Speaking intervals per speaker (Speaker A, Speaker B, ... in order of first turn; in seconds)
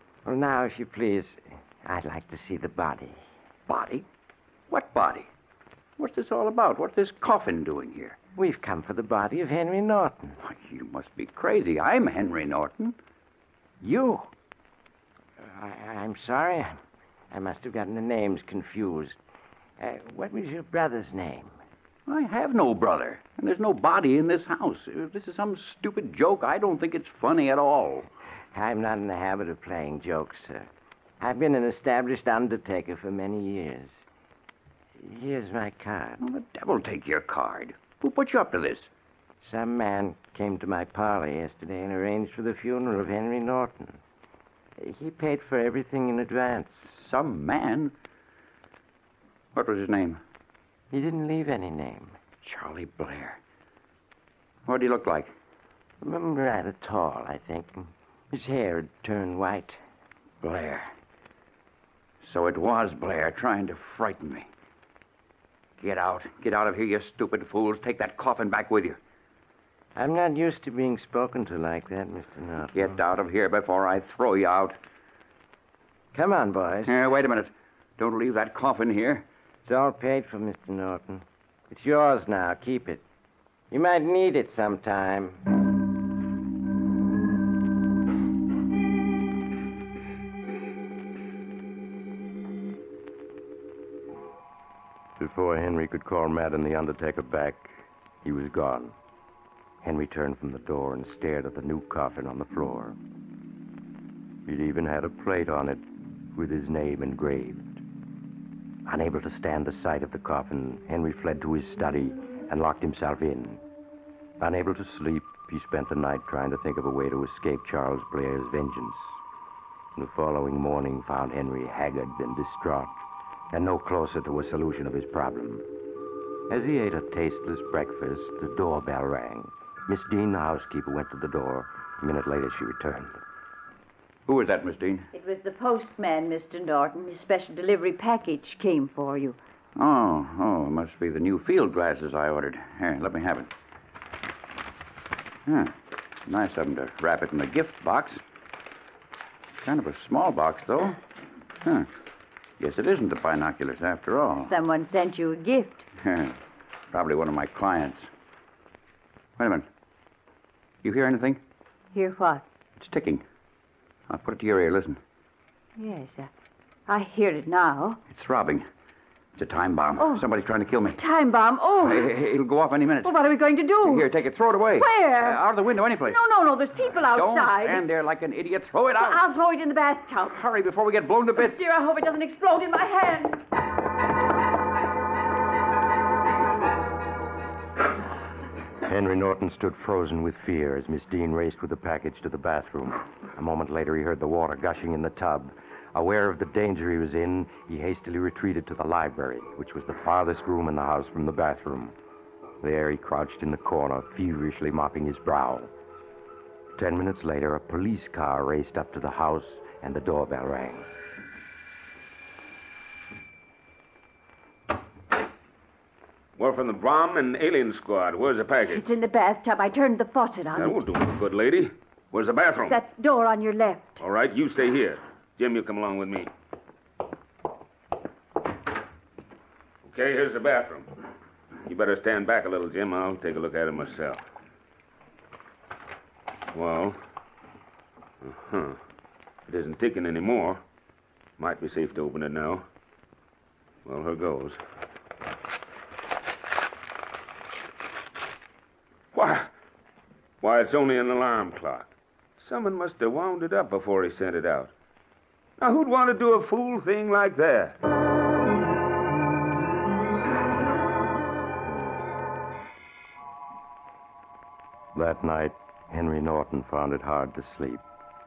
Speaker A: 0.2-1.3, 1.9-3.1, 8.4-10.3, 16.0-16.7, 17.4-19.1, 20.0-21.4, 28.6-30.6, 31.3-33.9, 35.2-36.1, 39.4-43.9, 45.0-46.6, 50.9-52.1, 56.0-57.7, 58.5-59.6, 70.0-72.7, 76.2-76.8, 79.7-81.2, 81.7-82.9, 83.9-85.0, 95.2-98.9, 99.8-103.0, 104.5-105.8, 106.3-107.8, 108.8-113.6, 114.4-119.1, 120.0-122.9, 123.5-125.6, 126.5-133.2, 188.8-201.9, 202.6-205.7, 206.8-210.9, 264.9-267.8
Speaker B: 0.3-2.9, 8.4-10.0, 15.6-16.6, 17.3-19.1, 19.8-21.4, 28.5-30.5, 31.2-33.7, 35.2-36.0, 39.4-43.6, 45.0-46.6, 50.9-51.7, 56.0-57.7, 58.3-59.7, 70.0-72.3, 76.2-76.9, 79.7-81.1, 81.7-83.0, 83.7-85.3
Speaker C: 3.7-4.0, 4.7-5.3, 6.0-8.2, 10.4-12.9, 13.8-14.3, 22.1-28.1, 36.2-38.9, 46.9-47.9, 49.5-50.2, 52.4-53.4, 54.6-55.3, 60.4-60.9, 62.2-64.5, 65.8-69.0, 72.7-74.8, 76.8-79.2, 134.3-135.1, 139.8-143.5, 145.4-148.2, 149.6-151.0, 151.6-151.9, 152.6-154.5, 156.0-156.4, 156.9-158.1, 159.4-159.7, 160.8-161.4, 162.8-163.2, 164.1-165.0, 168.1-168.6, 169.4-171.0, 171.8-173.1, 173.8-176.2, 177.0-179.2, 180.3-181.6
Speaker D: 135.1-139.4, 154.4-155.8, 161.9-162.4, 165.8-166.3, 166.9-168.0, 170.0-170.2, 170.9-172.1, 173.0-174.1, 174.8-175.4, 176.1-177.8, 179.0-180.4, 181.4-183.4, 218.7-220.9, 222.6-224.0
Speaker E: 216.4-218.8, 220.6-222.8, 224.0-226.3, 229.8-230.9, 231.7-234.2, 236.5-237.0, 238.2-238.8, 239.5-240.6, 241.4-242.6, 243.8-244.6, 249.1-249.5, 250.4-254.7, 255.6-257.8